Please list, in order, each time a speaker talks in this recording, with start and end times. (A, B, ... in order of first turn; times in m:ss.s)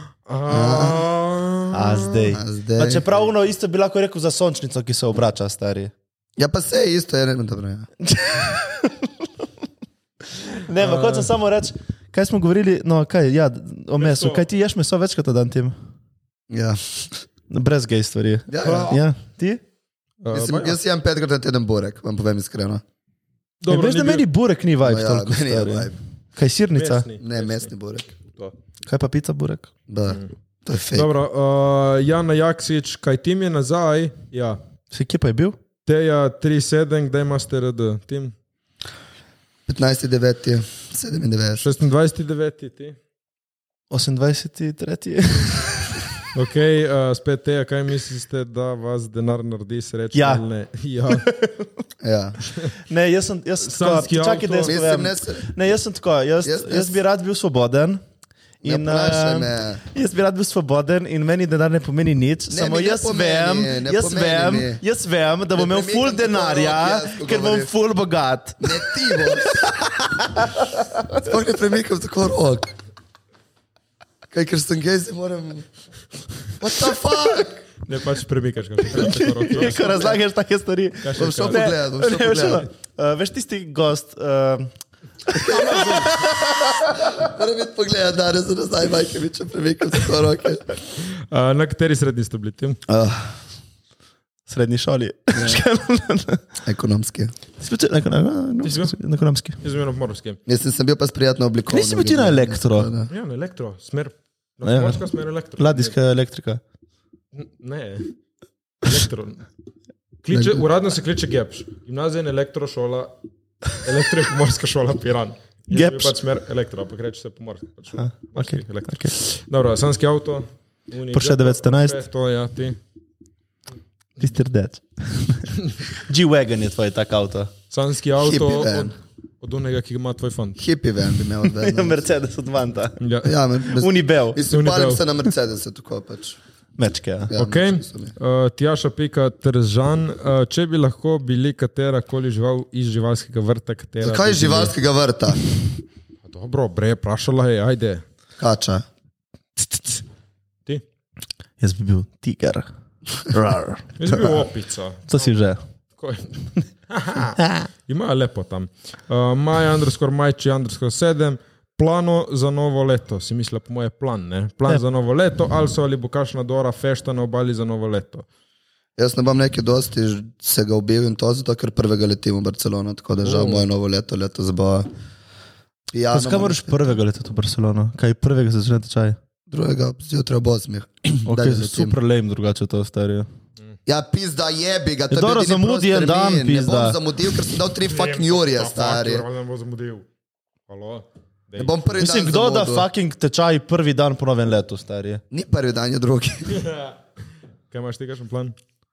0:00.2-0:02.3 A
0:00.5-0:01.0 B
0:01.7-0:05.9 C
0:02.3-0:03.3 B
0:06.4-0:07.9 B
0:08.0-0:09.2 C
0:10.6-0:15.7 C
0:10.8-0:11.3 A
0:14.0-0:14.5 A
0:16.5-0:17.1 B
0:17.5-0:19.6 C
0:18.5-0:19.0 B
0:18.6-0:19.0 A
0:20.2-0:20.8 A
0:20.3-0:22.8 B
0:23.6-0:24.3 A
0:23.7-0:27.0 C
0:24.8-0:26.0 B
0:26.7-0:28.5 A
0:27.2-0:28.1 B
0:28.9-0:29.7 C
0:29.9-0:31.1 B
0:30.9-0:34.6 A
0:34.9-0:35.6 C
0:35.8-0:38.3 A
0:39.6-0:41.7 B
0:41.6-0:43.0 A
0:43.9-0:45.9 C
0:46.3-0:51.3 A
0:50.1-0:50.4 C
0:51.1-0:51.7 C
0:52.0-0:52.4 B
0:52.9-0:58.0 C
0:53.7-0:54.7 A
0:54.6-0:55.5 B
0:56.4-0:57.0 B
0:58.6-1:10.6 C
0:58.6-0:59.8 B
1:02.5-1:04.8 B
1:05.6-1:07.7 B
1:08.6-1:09.8 B
1:11.1-1:12.7 B
1:14.3-1:15.6 B
1:16.6-1:17.6 B
1:17.8-1:20.1 A
1:18.9-1:24.7 C
1:19.6-1:20.1 B
1:21.0-1:21.7 A
1:21.2-1:22.7 B
1:25.3-1:30.6 B
1:25.8-1:26.7 C
1:31.0-1:32.8 A
1:32.9-1:33.3 B
1:34.5-1:36.4 C
1:35.3-1:35.6 B
1:36.6-1:37.3 B
1:37.6-1:39.6 C
1:38.6-1:38.9 A
1:39.6-1:40.4 A
1:40.4-1:43.1 B
1:41.7-1:42.9 C
1:43.1-1:45.9 A
1:44.6-1:45.0 C
1:45.6-1:46.6 C
1:47.3-1:48.1 A
1:48.8-1:49.4 A
1:50.2-1:53.1 A
1:53.8-2:02.8 A
1:55.7-1:56.2 C
1:58.0-1:59.1 C
2:01.1-2:02.0 C
2:04.2-2:07.5 C
2:07.7-2:10.6 A
2:08.2-2:08.9 B
2:10.6-2:12.0 B
2:11.6-2:13.0 C
2:13.0-2:13.3 A
2:13.2-2:16.4 B
2:13.7-2:14.4 C
2:14.5-2:15.0 A
2:16.8-2:17.3 C
2:17.3-2:18.1 B
2:17.4-2:24.7 A
2:24.0-2:25.4 B
2:26.2-2:28.0 A
2:28.4-2:28.8 B
2:31.6-2:32.7 C
2:33.2-2:33.8 C
2:34.0-2:35.3 A
2:35.1-2:35.6 C
2:36.0-2:36.3 A
2:36.9-2:48.2 A
2:37.4-2:37.6 C
2:49.0-2:54.9 B
2:53.2-2:53.6 A
2:55.9-2:57.0 B
2:56.1-2:59.2 C
2:59.5-3:02.0 B
3:01.2-3:03.3 C
3:03.8-3:09.2 B
3:05.1-3:07.0 C
3:07.9-3:10.0 A
3:10.7-3:11.8 A
3:11.6-3:12.9 B
3:12.0-3:15.2 C
3:15.3-3:16.6 B
3:16.6-3:16.9 A
3:17.7-3:18.5 A